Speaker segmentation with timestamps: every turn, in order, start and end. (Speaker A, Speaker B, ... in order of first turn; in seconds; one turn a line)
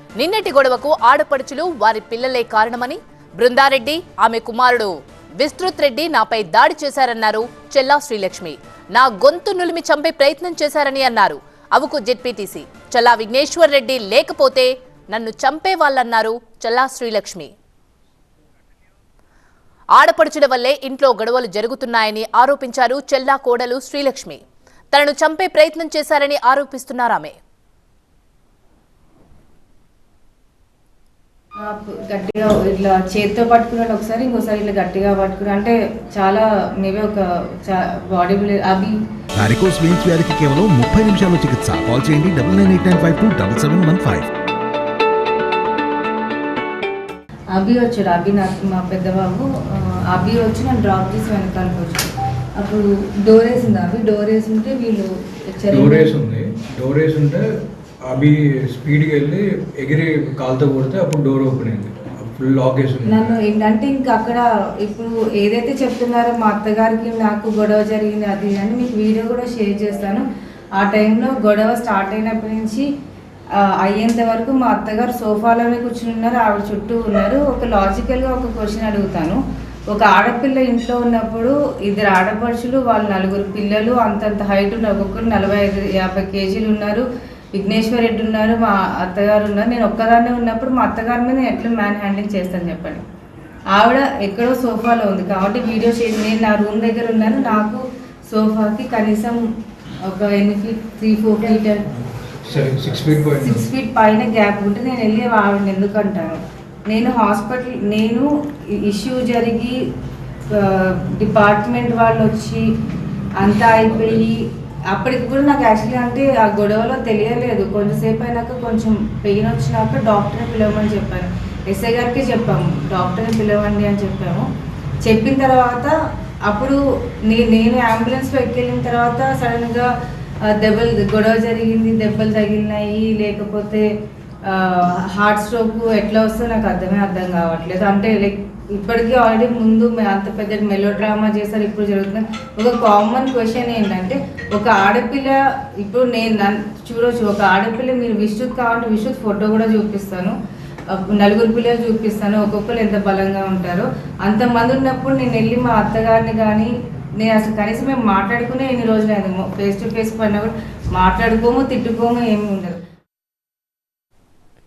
Speaker A: 0.2-17.5
Speaker A: 19.9-24.4
Speaker A: 24.9-27.4
Speaker B: 31.6-39.0
Speaker C: 39.4-44.3
Speaker B: 47.5-56.1
Speaker D: 55.7-57.5
Speaker D: 58.0-63.4
Speaker B: 63.1-70.2
Speaker B: 70.8-72.9
Speaker B: 73.6-79.4
Speaker B: 79.9-93.0
Speaker B: 93.7-99.4
Speaker B: 100.1-101.8
Speaker D: 102.5-103.7
Speaker B: 103.4-108.3
Speaker B: 108.8-109.8
Speaker B: 110.6-112.7
Speaker B: 113.4-114.4
Speaker B: 114.9-124.5
Speaker B: 125.0-125.9
Speaker B: 126.5-129.9
Speaker B: 130.5-133.9
Speaker B: 134.5-150.4
Speaker B: 150.9-162.8